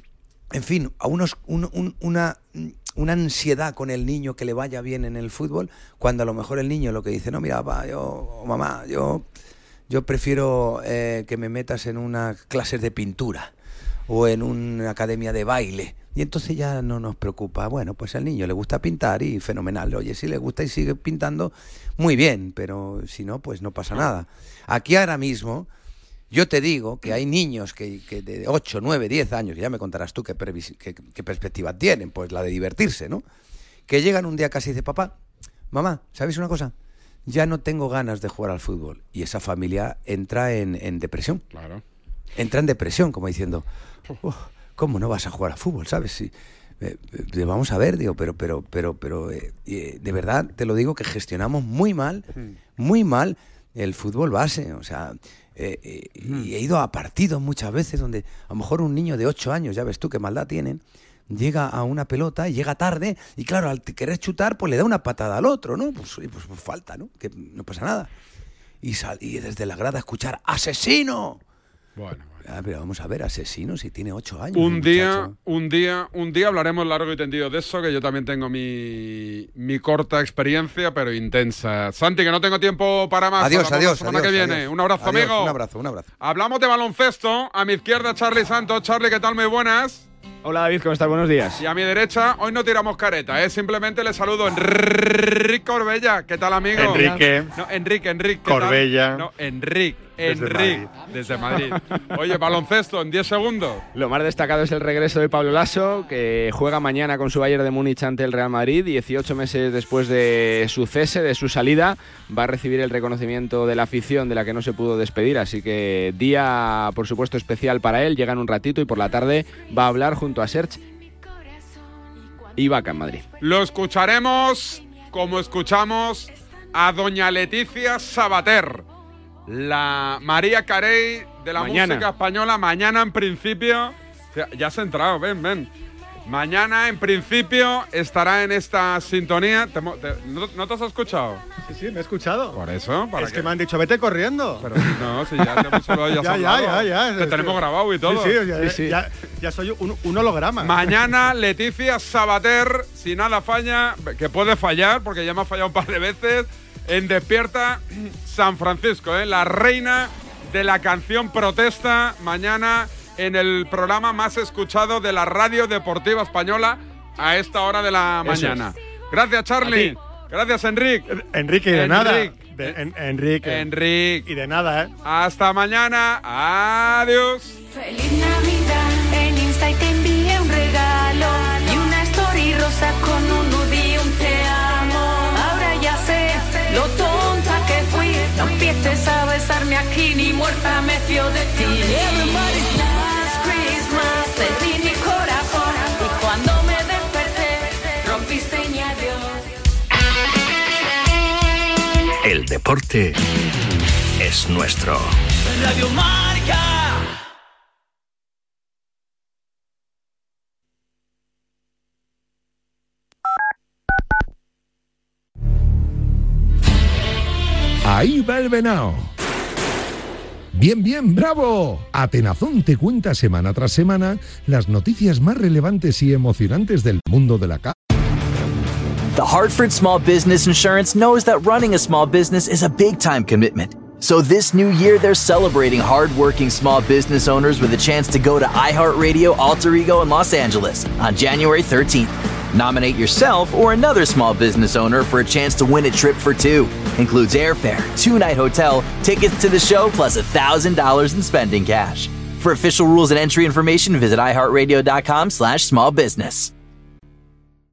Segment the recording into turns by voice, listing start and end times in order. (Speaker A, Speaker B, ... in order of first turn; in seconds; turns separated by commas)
Speaker A: 0.5-9.2, Speaker A: 9.9-13.5, Speaker A: 14.1-25.7, Speaker A: 26.3-33.2, Speaker A: 33.9-35.1, Speaker A: 35.7-36.7, Speaker A: 37.2-41.4, Speaker B: 41.5-41.8, Speaker A: 42.4-43.6, Speaker A: 44.2-52.2, Speaker A: 52.8-68.1, Speaker B: 56.2-56.5, Speaker A: 68.8-71.4, Speaker B: 72.0-72.4, Speaker A: 72.4-75.3, Speaker B: 74.5-85.6, Speaker A: 83.4-86.0, Speaker B: 86.2-90.0, Speaker C: 90.4-91.6, Speaker B: 91.6-103.8, Speaker D: 96.7-97.5, Speaker D: 98.4-99.2, Speaker D: 100.2-100.9, Speaker C: 103.9-120.8, Speaker C: 122.5-123.2, Speaker B: 123.4-128.8, Speaker B: 129.5-135.7, Speaker C: 131.6-132.1, Speaker B: 136.2-141.4, Speaker D: 141.7-142.6, Speaker B: 142.5-143.5, Speaker D: 143.2-151.1, Speaker B: 144.6-148.5, Speaker C: 148.6-148.9, Speaker B: 150.6-171.1, Speaker D: 168.3-168.6, Speaker D: 169.6-169.9, Speaker D: 171.1-173.7, Speaker B: 171.7-172.7, Speaker B: 173.4-174.2, Speaker D: 174.2-174.9, Speaker B: 175.0-177.5, Speaker E: 177.7-199.4, Speaker F: 202.2-203.2, Speaker F: 204.2-205.2, Speaker F: 205.7-206.0, Speaker G: 217.8-219.1, Speaker G: 220.5-227.7, Speaker H: 229.2-256.5